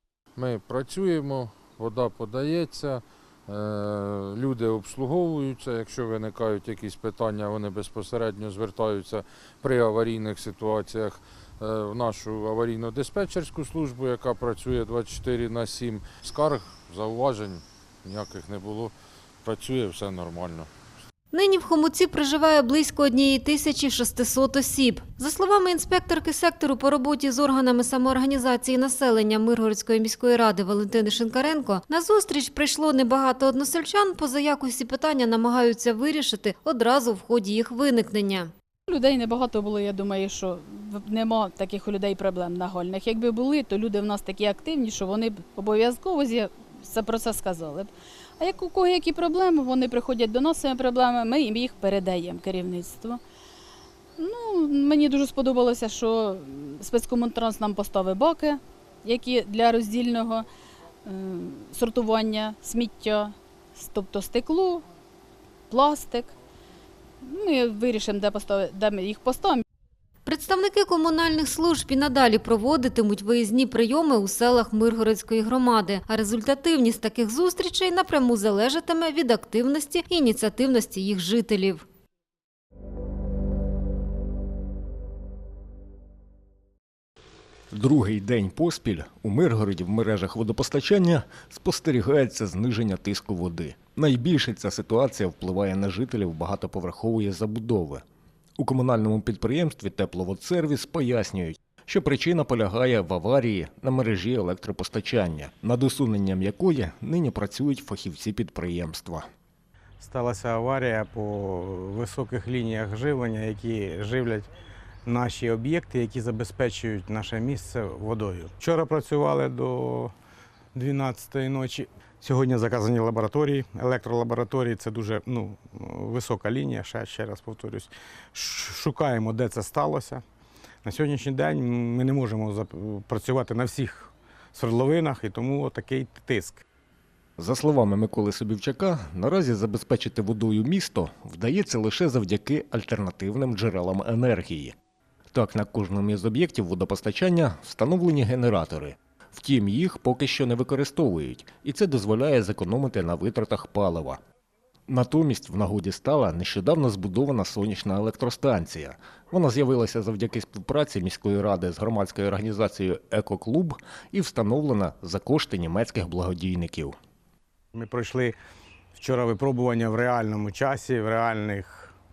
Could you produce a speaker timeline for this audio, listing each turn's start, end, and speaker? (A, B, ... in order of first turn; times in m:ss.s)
0:00.4-0:20.7 A
0:21.3-0:38.5 B
0:38.9-0:53.2 C
0:54.2-1:00.5 C
1:01.0-1:04.8 C
1:05.7-1:06.3 C
1:07.2-1:09.6 C
1:10.2-1:21.8 B
1:27.7-1:38.0 D
1:38.6-1:49.2 D
1:50.0-1:54.4 E
1:55.2-2:00.1 E
2:00.8-2:07.9 E
2:08.4-2:10.2 E
2:10.9-2:14.0 E
2:14.6-2:16.5 E
2:17.4-2:24.7 D
2:25.3-2:34.2 D
2:34.9-2:46.9 D
2:47.8-2:48.4 E
2:49.1-2:51.9 E